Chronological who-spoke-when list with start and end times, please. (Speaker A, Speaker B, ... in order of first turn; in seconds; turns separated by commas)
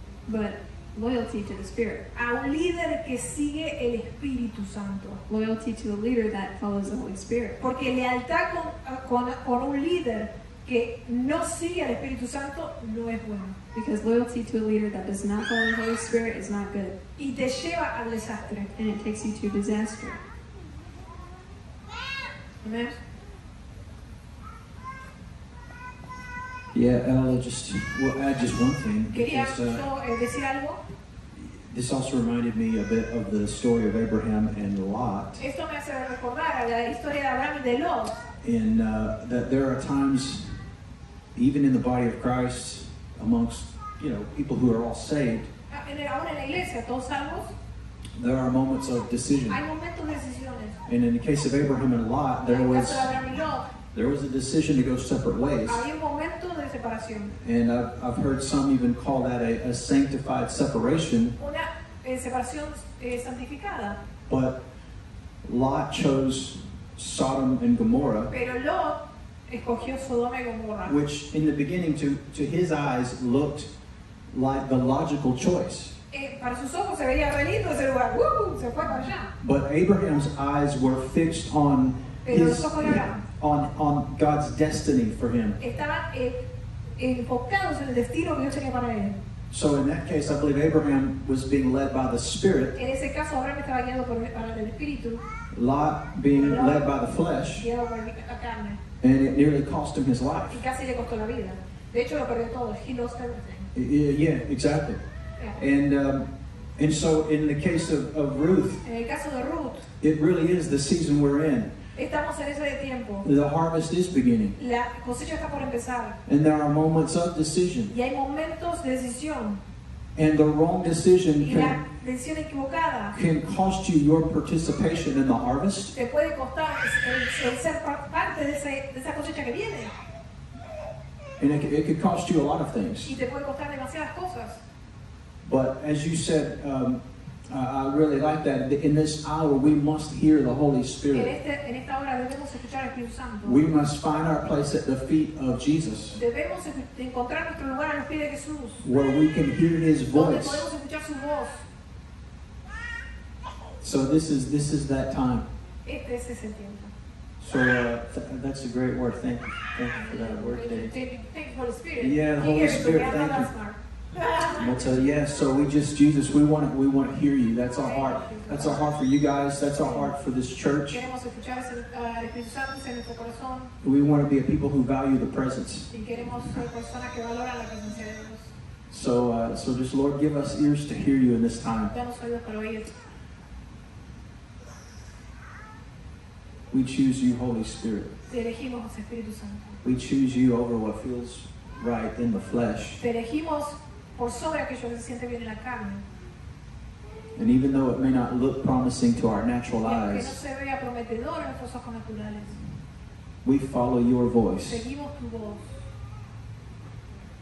Speaker A: 0.3-2.0, Speaker B: 2.1-5.2, Speaker A: 5.3-7.6, Speaker B: 7.6-13.6, Speaker A: 13.7-16.9, Speaker B: 17.2-18.7, Speaker A: 18.8-20.2, Speaker B: 22.6-23.0, Speaker C: 26.7-29.9, Speaker B: 29.1-30.8, Speaker C: 31.3-35.4, Speaker B: 35.4-38.2, Speaker C: 38.4-40.6, Speaker C: 41.4-45.5, Speaker B: 45.7-47.5, Speaker C: 48.2-49.6, Speaker B: 49.5-50.8, Speaker C: 50.9-53.2, Speaker B: 52.5-53.7, Speaker C: 53.9-55.9, Speaker B: 55.7-57.3, Speaker C: 57.4-61.4, Speaker B: 61.4-64.0, Speaker C: 64.3-64.6, Speaker C: 65.4-68.3, Speaker B: 68.3-71.0, Speaker C: 70.9-73.7, Speaker C: 74.3-75.9, Speaker B: 76.1-79.3, Speaker C: 79.4-85.6, Speaker B: 82.2-83.2, Speaker B: 85.6-86.5, Speaker B: 87.0-89.2, Speaker C: 89.5-92.8, Speaker B: 92.8-95.2, Speaker C: 95.5-97.7, Speaker B: 96.3-96.9, Speaker B: 97.6-98.8, Speaker C: 99.0-100.6, Speaker B: 100.4-103.7, Speaker C: 103.7-105.0, Speaker C: 105.6-108.8, Speaker B: 108.8-109.9, Speaker C: 110.0-111.7, Speaker B: 112.0-113.3, Speaker C: 113.2-114.6, Speaker B: 114.6-116.2, Speaker C: 116.3-117.9, Speaker B: 117.9-119.6, Speaker C: 120.1-121.8, Speaker B: 121.4-123.1, Speaker C: 123.1-126.0, Speaker B: 126.0-129.9, Speaker C: 131.4-133.2, Speaker B: 133.1-134.6, Speaker C: 135.4-141.3, Speaker B: 141.1-143.7, Speaker C: 143.4-146.2, Speaker B: 146.1-148.8, Speaker C: 148.8-150.7, Speaker B: 150.1-151.6, Speaker C: 153.8-155.5, Speaker B: 155.8-156.9, Speaker C: 157.4-160.9, Speaker B: 159.9-164.7, Speaker C: 162.0-163.5, Speaker C: 164.4-171.0, Speaker B: 167.8-168.8, Speaker B: 169.8-170.1, Speaker B: 170.9-173.7, Speaker C: 173.8-175.9, Speaker B: 175.9-178.5, Speaker C: 178.9-181.9, Speaker B: 181.9-182.9, Speaker C: 186.7-188.1, Speaker B: 188.3-189.8, Speaker C: 189.8-193.0, Speaker B: 193.0-196.0, Speaker C: 197.4-200.4, Speaker B: 199.8-202.6, Speaker C: 203.4-204.8, Speaker B: 204.6-205.8